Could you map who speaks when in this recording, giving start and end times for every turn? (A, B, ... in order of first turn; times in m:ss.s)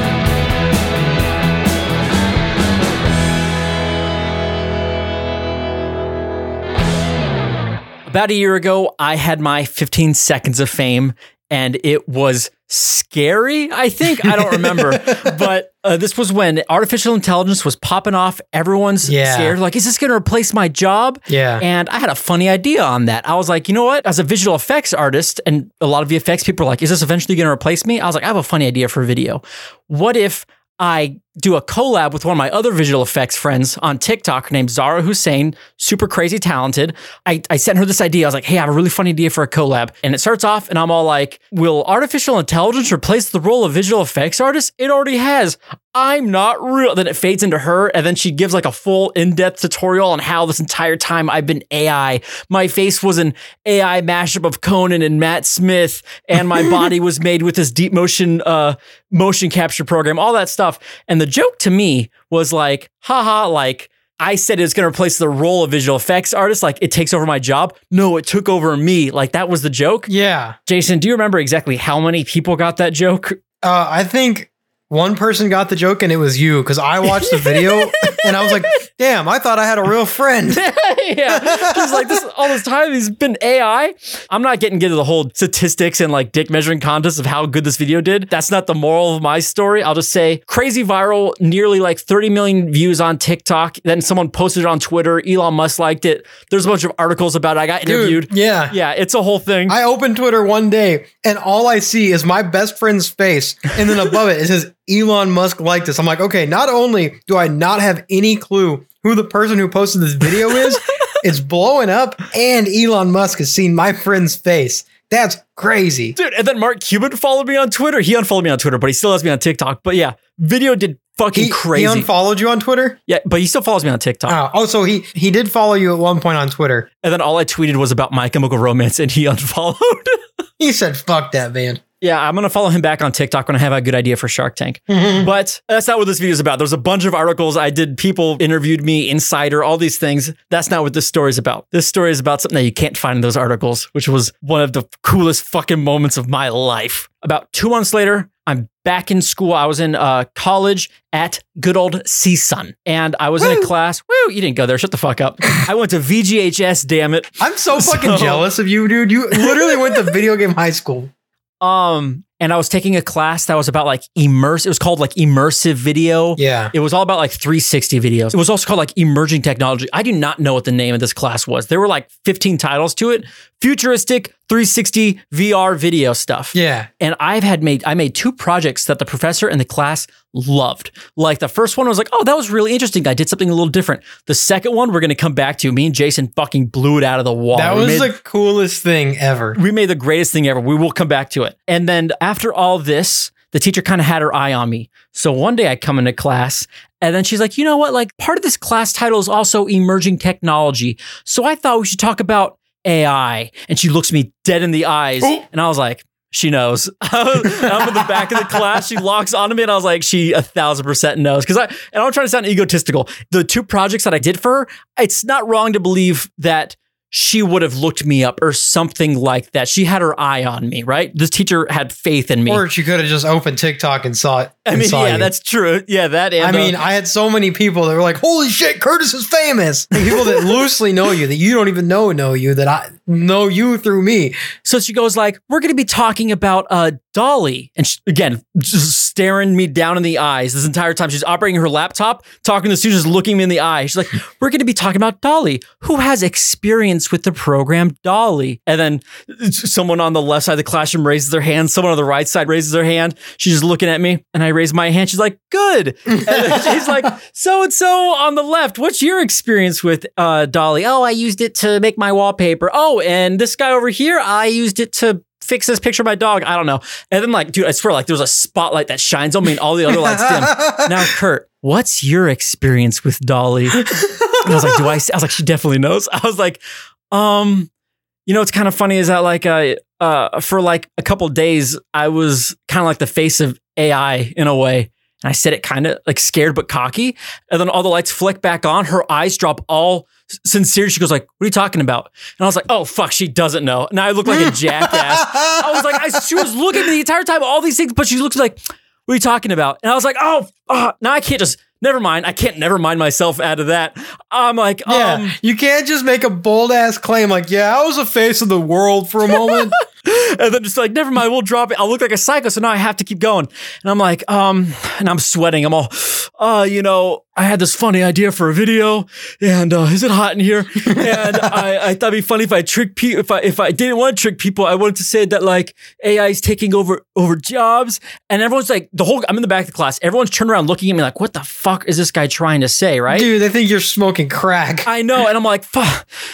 0:08.1-1:10.1 A
0:14.2-0:15.4 B
0:19.0-0:19.6 B
0:21.3-0:21.6 B
1:10.1-1:10.6 B
1:10.6-1:13.4 A
1:13.6-1:20.6 B
1:17.1-1:18.4 A
1:20.5-1:39.8 A
1:21.3-1:22.2 B
1:37.8-1:38.8 B
1:39.7-1:56.1 B
1:56.1-2:02.1 A
2:01.3-2:03.0 B
2:03.1-2:04.4 A
2:04.3-2:06.9 B
2:07.0-2:10.2 A
2:10.6-2:11.8 B
2:12.0-2:38.4 A
2:14.9-2:15.3 B
2:33.4-2:33.7 B
2:37.4-2:41.1 B
2:39.3-2:40.0 A
2:41.6-3:08.1 A
2:46.4-2:46.7 B
2:56.5-2:56.9 B
3:07.5-3:09.6 B
3:09.5-3:42.6 A
3:27.6-3:27.8 B
3:42.5-3:45.3 B
3:44.6-3:46.8 A
3:46.4-3:54.4 B
3:50.1-3:50.5 A
3:54.6-4:36.6 A
4:16.3-4:16.8 B
4:29.9-4:30.8 B
4:34.0-4:34.3 B
4:37.1-4:37.7 A
4:38.2-5:05.3 A
4:54.2-4:56.5 B
5:04.9-5:09.8 B
5:09.3-5:33.3 A
5:20.9-5:21.3 B
5:33.1-5:34.9 B
5:34.8-5:36.0 A